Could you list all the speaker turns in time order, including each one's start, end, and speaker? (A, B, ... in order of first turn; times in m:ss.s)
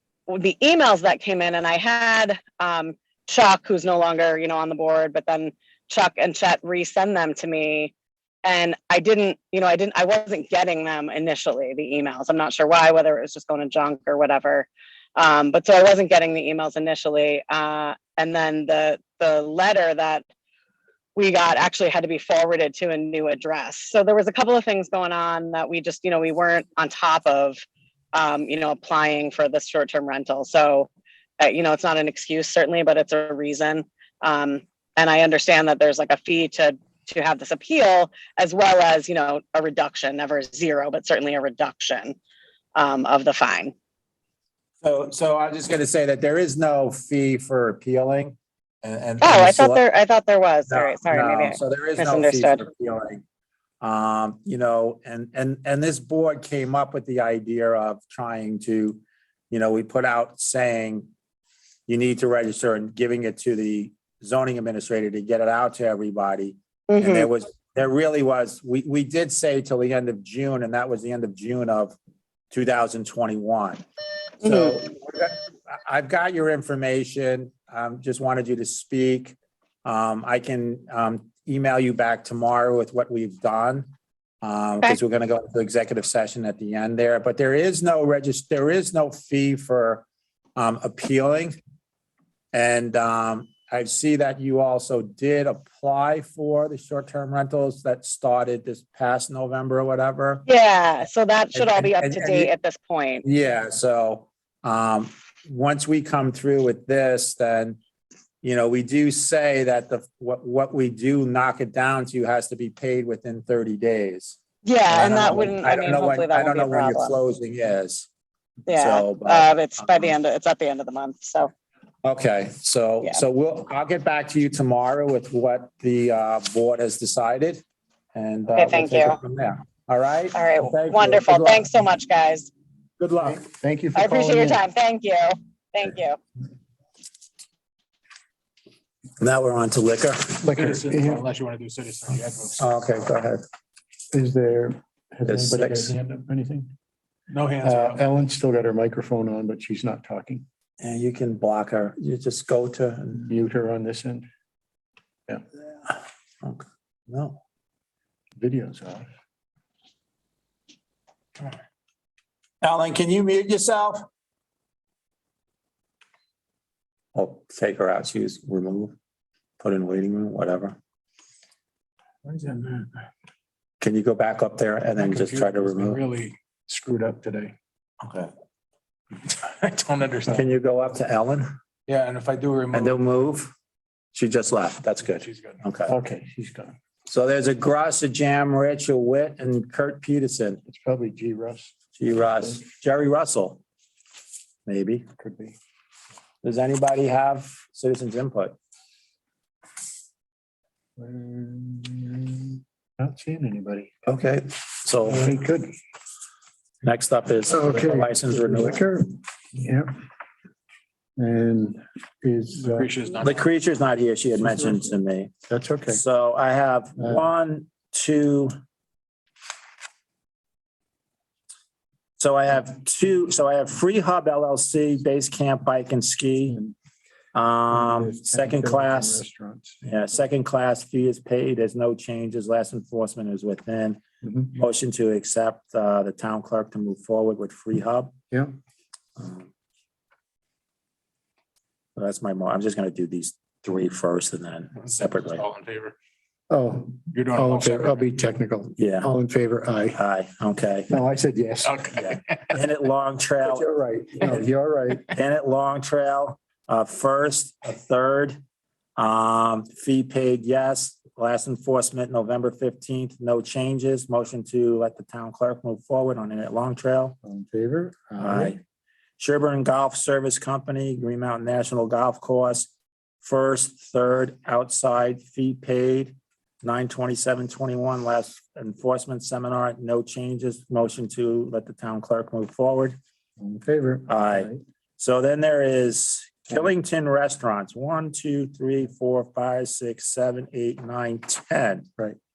0:00.3-0:07.9 A
0:08.4-0:20.2 A
0:21.2-0:27.6 A
0:28.1-0:42.2 A
0:42.7-0:43.7 A
0:44.8-0:49.8 B
0:49.2-0:52.6 A
0:50.7-0:53.2 B
0:53.8-0:59.0 B
0:59.5-1:01.1 B
1:01.9-1:11.9 B
1:06.9-1:07.3 A
1:12.5-1:13.8 B
1:14.4-1:23.9 B
1:14.4-1:14.7 A
1:24.4-1:30.0 B
1:30.6-1:31.6 B
1:32.5-1:40.5 B
1:40.4-1:43.2 A
1:41.5-1:42.5 B
1:43.2-1:47.8 B
1:48.4-1:58.1 B
1:54.6-1:57.1 A
1:58.7-2:01.5 A
1:58.7-2:00.1 B
2:02.0-2:07.6 B
2:08.1-2:11.7 B
2:08.6-2:09.2 A
2:10.3-2:12.5 A
2:13.0-2:13.4 B
2:13.2-2:14.6 C
2:13.9-2:16.2 A
2:19.2-2:20.4 B
2:20.4-2:21.2 C
2:20.4-2:22.7 D
2:22.6-2:23.4 B
2:24.1-2:26.7 C
2:25.3-2:25.9 B
2:27.3-2:28.0 D
2:27.6-2:30.4 C
2:30.8-2:33.3 B
2:33.2-2:34.3 C
2:36.4-2:37.4 B
2:38.4-2:39.1 C
2:42.6-2:44.0 B
2:47.1-2:48.9 B
2:49.6-2:50.8 B
2:52.2-2:52.8 C
2:53.8-2:56.0 B
2:55.1-2:56.3 D
2:56.7-2:57.5 C
2:58.0-2:58.3 B
2:59.3-3:00.4 D
3:00.3-3:01.5 B
3:01.9-3:03.1 D
3:02.7-3:03.5 B
3:04.1-3:05.9 B
3:05.1-3:05.6 D
3:05.9-3:06.7 C
3:07.1-3:10.6 B
3:10.7-3:11.7 C
3:12.0-3:13.6 B
3:14.7-3:15.0 B
3:15.2-3:15.6 C
3:16.4-3:18.6 B
3:21.0-3:23.9 C
3:24.1-3:25.3 B
3:25.1-3:25.7 C
3:26.8-3:28.8 B
3:27.5-3:29.9 C
3:31.2-3:32.9 C
3:32.6-3:33.4 D
3:33.2-3:35.3 B
3:35.5-3:36.0 C
3:35.9-3:38.5 B
3:42.2-3:46.6 B
3:47.3-3:49.2 B
3:47.7-3:49.8 C
3:49.8-3:54.0 B
3:54.2-3:54.5 C
3:54.5-3:58.1 B
3:59.2-3:59.5 B
4:02.0-4:05.4 B
4:04.9-4:05.9 D
4:06.5-4:10.0 C
4:07.1-4:08.0 D
4:08.8-4:09.1 B
4:09.9-4:10.9 B
4:10.9-4:11.9 C
4:11.6-4:12.5 D
4:12.0-4:13.7 B
4:13.4-4:15.1 C
4:15.1-4:18.4 B
4:19.0-4:27.2 B
4:27.2-4:28.6 C
4:28.2-4:28.6 B
4:29.2-4:32.7 B
4:33.2-4:43.0 B
4:43.4-4:44.6 C
4:44.1-4:51.9 B